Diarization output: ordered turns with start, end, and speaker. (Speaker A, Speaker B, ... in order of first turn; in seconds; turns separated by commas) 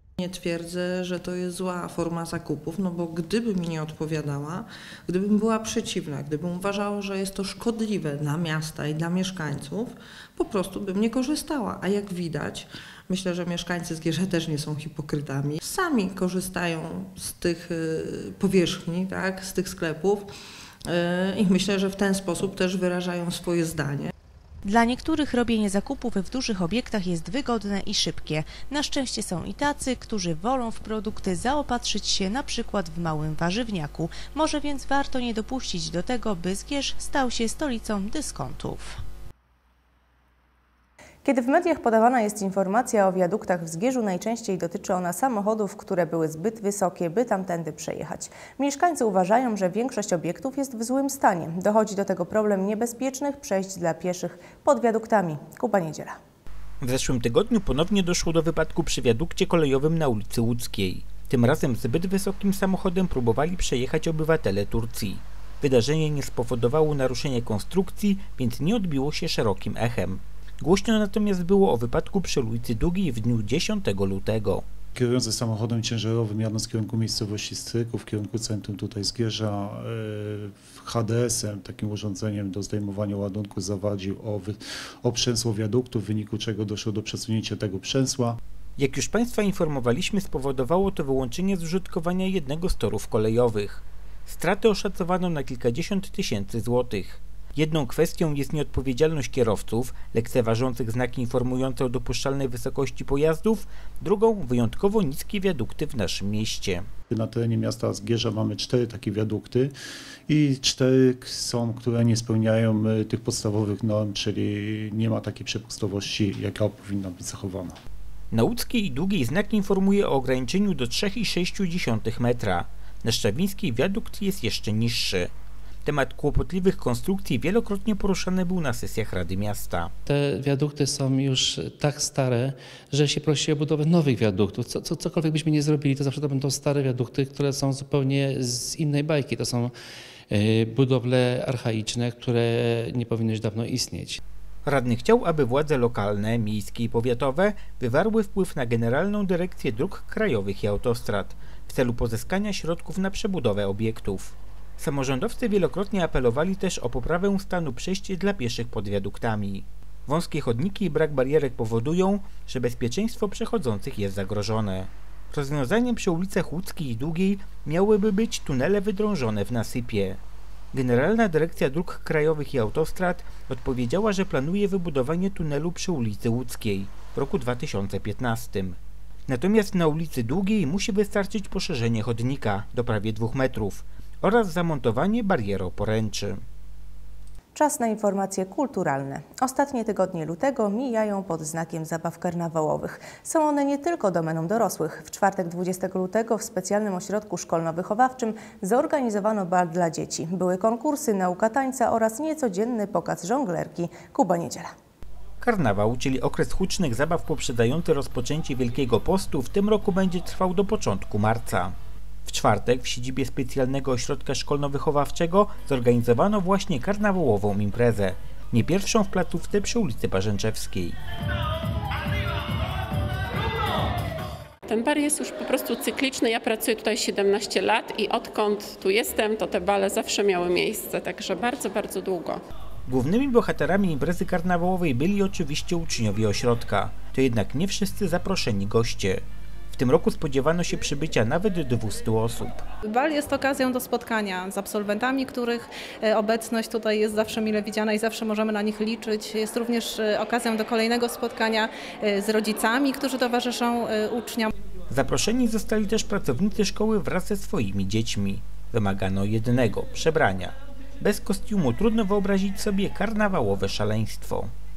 Speaker A: 0.2-20.3, Speaker A: 20.9-24.1, Speaker B: 24.7-39.0, Speaker C: 41.2-56.1, Speaker D: 56.8-74.6, Speaker E: 75.0-88.4, Speaker D: 88.8-106.9, Speaker E: 107.1-109.7, Speaker E: 110.3-117.8, Speaker D: 118.3-125.3, Speaker D: 125.8-129.9, Speaker F: 130.1-139.7, Speaker F: 140.3-144.2, Speaker D: 144.7-170.2, Speaker D: 170.7-178.8, Speaker D: 179.3-186.4, Speaker C: 187.8-192.9, Speaker B: 193.0-193.3, Speaker C: 193.4-204.7, Speaker D: 205.4-211.8, Speaker D: 212.3-221.0, Speaker G: 224.7-232.4, Speaker D: 232.9-242.6, Speaker H: 242.9-254.5, Speaker D: 254.9-264.5